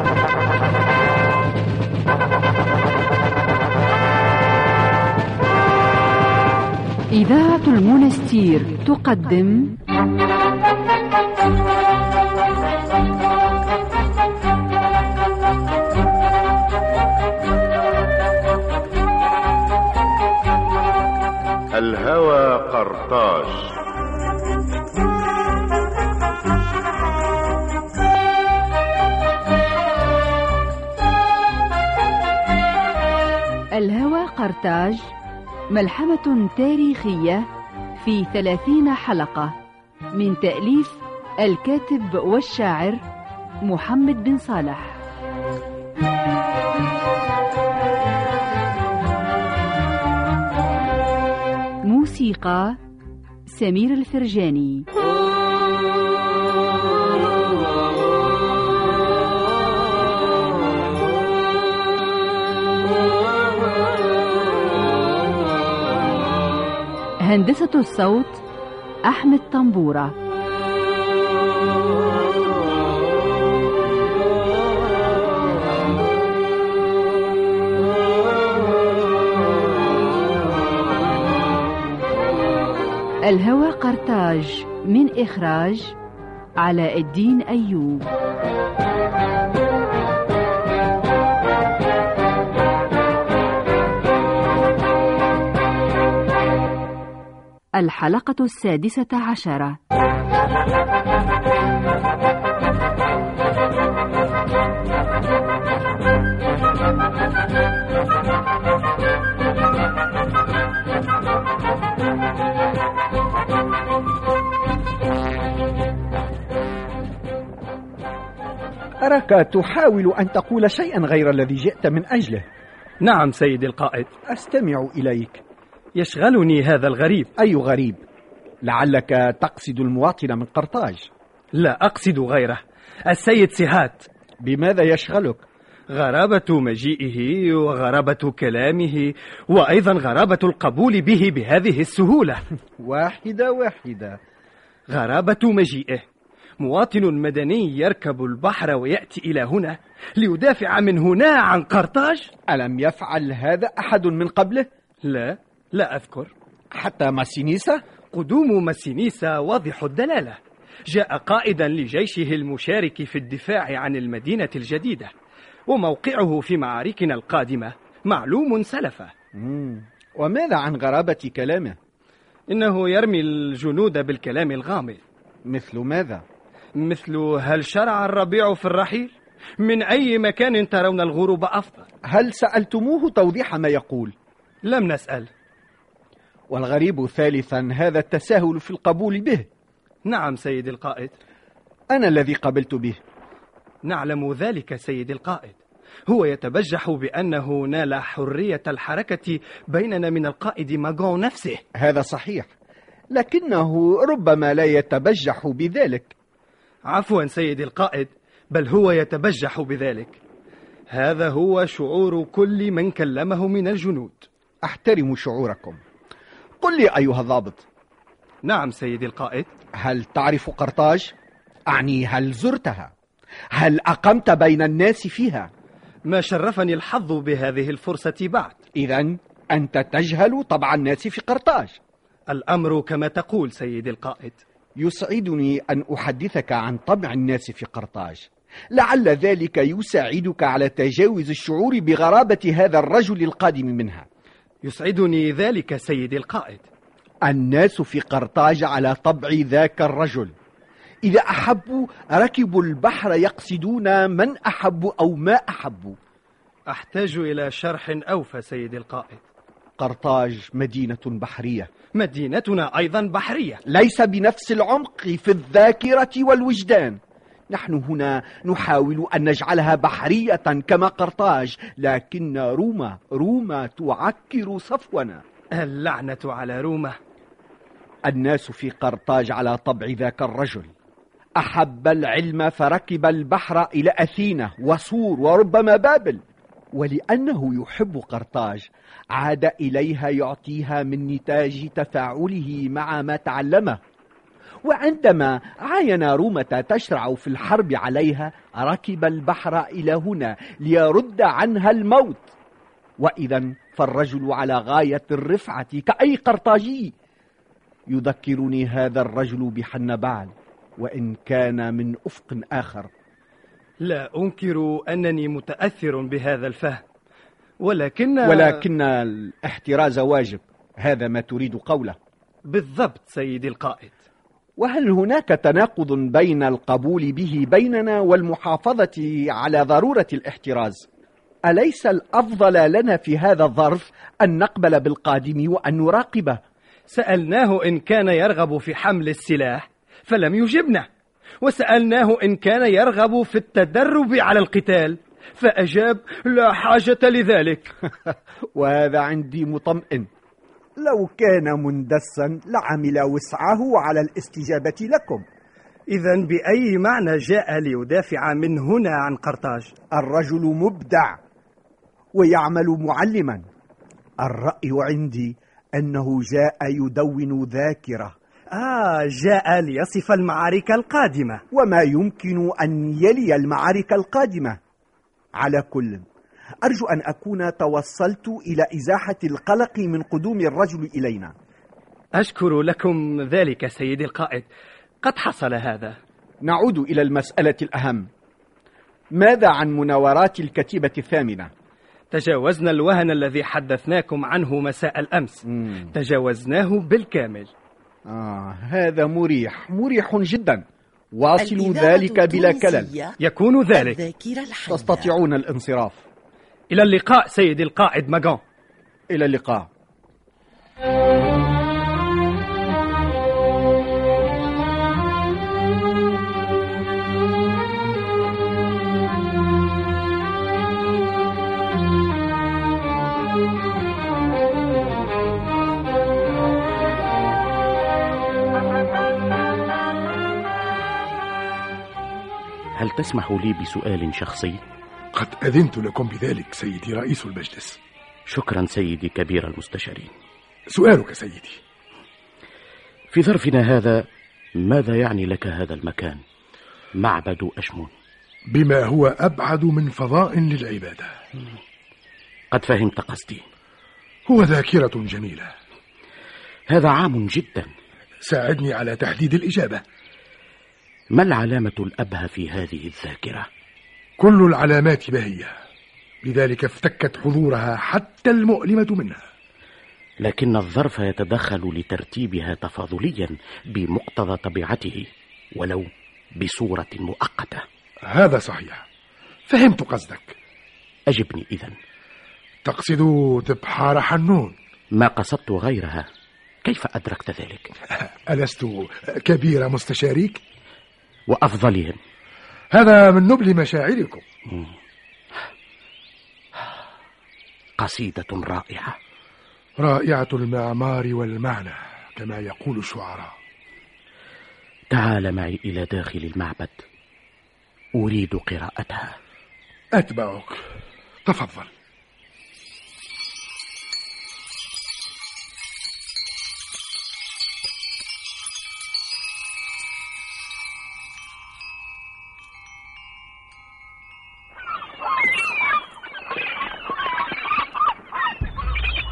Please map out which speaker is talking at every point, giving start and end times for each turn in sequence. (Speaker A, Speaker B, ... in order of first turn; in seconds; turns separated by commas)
Speaker A: 7.1-9.7, Speaker B: 21.7-23.7, Speaker A: 33.8-35.0, Speaker A: 35.7-37.4, Speaker A: 38.0-39.5, Speaker A: 40.1-43.0, Speaker A: 43.7-45.0, Speaker A: 51.8-52.8, Speaker A: 53.5-54.9, Speaker A: 67.2-68.4, Speaker A: 69.1-70.1, Speaker A: 83.3-85.9, Speaker A: 86.6-88.1, Speaker A: 97.8-99.8, Speaker C: 119.0-122.4, Speaker D: 123.0-124.1, Speaker C: 124.3-125.4, Speaker D: 126.0-127.3, Speaker C: 127.4-128.0, Speaker C: 128.6-131.1, Speaker D: 131.6-134.1, Speaker C: 134.4-135.4, Speaker D: 135.9-142.4, Speaker C: 142.8-144.2, Speaker D: 144.9-146.1, Speaker D: 146.6-152.3, Speaker C: 152.5-154.7, Speaker D: 155.0-156.3, Speaker C: 156.8-157.8, Speaker D: 158.1-165.1, Speaker D: 165.7-169.1, Speaker C: 169.4-171.8, Speaker D: 172.5-175.0, Speaker C: 175.5-176.2, Speaker D: 176.8-181.9, Speaker C: 182.1-184.1, Speaker D: 184.6-185.3, Speaker C: 186.5-189.5, Speaker D: 190.0-191.1, Speaker C: 191.9-193.0, Speaker D: 193.8-201.6, Speaker C: 201.8-202.5, Speaker C: 203.1-206.1, Speaker D: 206.9-210.2, Speaker D: 210.9-214.3, Speaker C: 214.7-215.8, Speaker C: 216.6-217.6, Speaker D: 218.4-219.5, Speaker C: 219.8-221.1, Speaker C: 221.7-222.9, Speaker C: 223.6-225.5, Speaker D: 226.1-228.6, Speaker C: 228.7-231.8, Speaker D: 232.3-234.4, Speaker C: 234.8-244.1, Speaker D: 244.6-246.6, Speaker C: 247.2-250.3, Speaker C: 251.1-256.0, Speaker D: 256.7-259.2, Speaker C: 259.8-261.7, Speaker D: 261.9-263.6, Speaker C: 263.7-267.0, Speaker C: 267.5-275.2, Speaker D: 275.6-277.0, Speaker C: 278.1-280.7, Speaker C: 281.4-286.2, Speaker C: 286.8-293.8, Speaker C: 294.6-302.3, Speaker C: 303.0-306.9, Speaker C: 307.9-312.9, Speaker D: 313.8-316.8, Speaker D: 317.6-318.6, Speaker C: 318.2-321.9, Speaker D: 322.5-323.9, Speaker C: 324.6-330.9, Speaker C: 331.5-336.4, Speaker D: 336.9-340.9, Speaker D: 341.4-347.7, Speaker C: 348.5-350.1, Speaker C: 350.8-355.2, Speaker D: 355.9-359.7, Speaker C: 359.9-361.2, Speaker C: 362.1-363.4, Speaker C: 364.2-368.1, Speaker D: 368.5-371.4, Speaker C: 371.5-374.6, Speaker C: 375.4-376.0, Speaker C: 376.6-381.3, Speaker D: 382.2-384.5, Speaker D: 385.0-386.0, Speaker C: 386.4-388.1, Speaker C: 389.1-391.5, Speaker D: 392.1-397.5, Speaker C: 395.5-395.9, Speaker C: 398.1-402.9, Speaker E: 401.4-403.2, Speaker D: 403.2-404.0, Speaker E: 403.7-405.1, Speaker C: 404.6-406.0, Speaker D: 406.7-408.4, Speaker C: 409.1-409.7, Speaker F: 432.8-434.6, Speaker G: 435.1-437.8, Speaker F: 438.3-440.1, Speaker G: 440.7-441.6, Speaker F: 443.1-444.1, Speaker F: 444.6-446.2, Speaker F: 446.9-447.9, Speaker G: 448.5-451.1, Speaker F: 452.5-453.4, Speaker G: 454.3-455.5, Speaker F: 456.7-457.7, Speaker G: 458.2-459.8, Speaker F: 461.1-463.4, Speaker G: 464.2-465.5, Speaker G: 466.2-469.2, Speaker F: 470.2-477.6, Speaker G: 478.1-478.8, Speaker G: 479.5-480.4, Speaker F: 481.1-481.8, Speaker G: 482.6-484.6, Speaker F: 485.0-486.1, Speaker F: 486.6-487.7, Speaker G: 488.3-490.4, Speaker F: 491.3-492.0, Speaker G: 492.7-494.2, Speaker F: 497.8-498.9, Speaker G: 499.8-503.3, Speaker F: 504.9-506.8, Speaker F: 507.9-509.1, Speaker G: 509.9-510.6, Speaker G: 511.2-511.7